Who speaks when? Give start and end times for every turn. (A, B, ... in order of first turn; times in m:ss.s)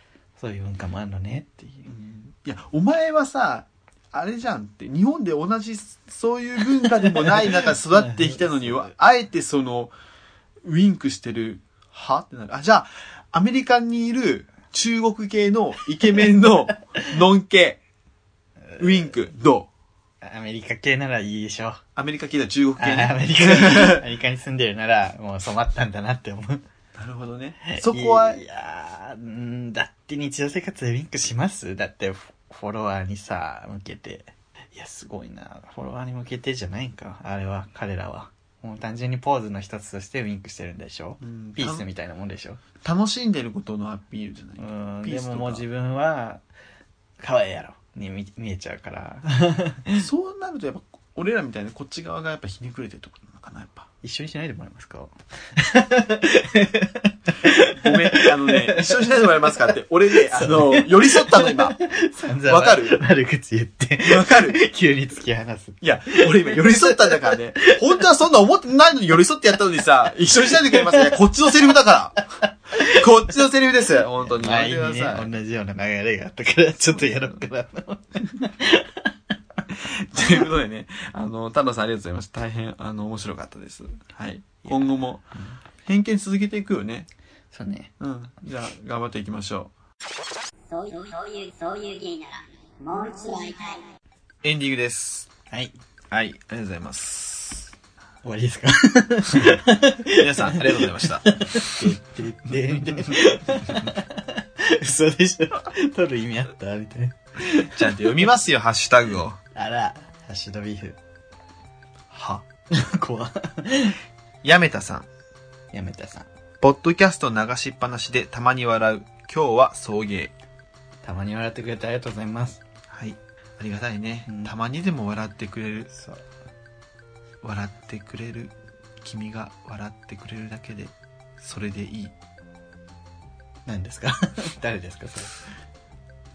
0:00.4-0:01.9 A
0:01.9-0:09.9 B
0:07.0-0:08.9 A
0:10.6-0:17.8 B
0:18.7-0:19.1 A
0:18.8-0:19.7 B
0:20.2-0:21.8 A
0:22.0-0:24.0 B
0:22.8-0:26.6 A
0:27.0-0:28.4 B
0:27.6-0:42.6 A
0:41.2-0:41.8 B
0:42.8-0:45.6 B
0:44.6-0:46.4 A
0:47.2-0:50.0 A
0:50.0-0:53.9 B
0:54.0-0:59.2 A
0:57.7-1:01.8 B
1:00.1-1:07.8 A
1:02.4-1:03.0 B
1:04.0-1:04.6 B
1:05.8-1:12.2 B
1:10.6-1:11.1 A
1:12.8-1:15.3 B
1:14.2-1:19.2 A
1:19.7-1:25.3 B
1:24.6-1:25.6 A
1:25.8-1:27.1 B
1:27.5-1:27.9 A
1:28.0-1:29.7 B
1:30.7-1:33.9 C
1:34.4-1:35.3 B
1:35.5-1:35.8 A
1:36.1-1:37.7 B
1:38.2-1:47.9 A
1:40.2-1:41.9 B
1:47.7-1:49.4 B
1:49.5-1:51.0 A
1:52.1-1:52.4 B
1:52.7-1:54.0 A
1:54.4-1:55.1 B
1:55.7-1:56.3 A
1:56.6-2:00.3 B
2:01.0-2:02.6 A
2:02.9-2:05.9 B
2:04.3-2:04.5 A
2:05.9-2:06.2 A
2:07.4-2:12.2 B
2:13.7-2:15.4 A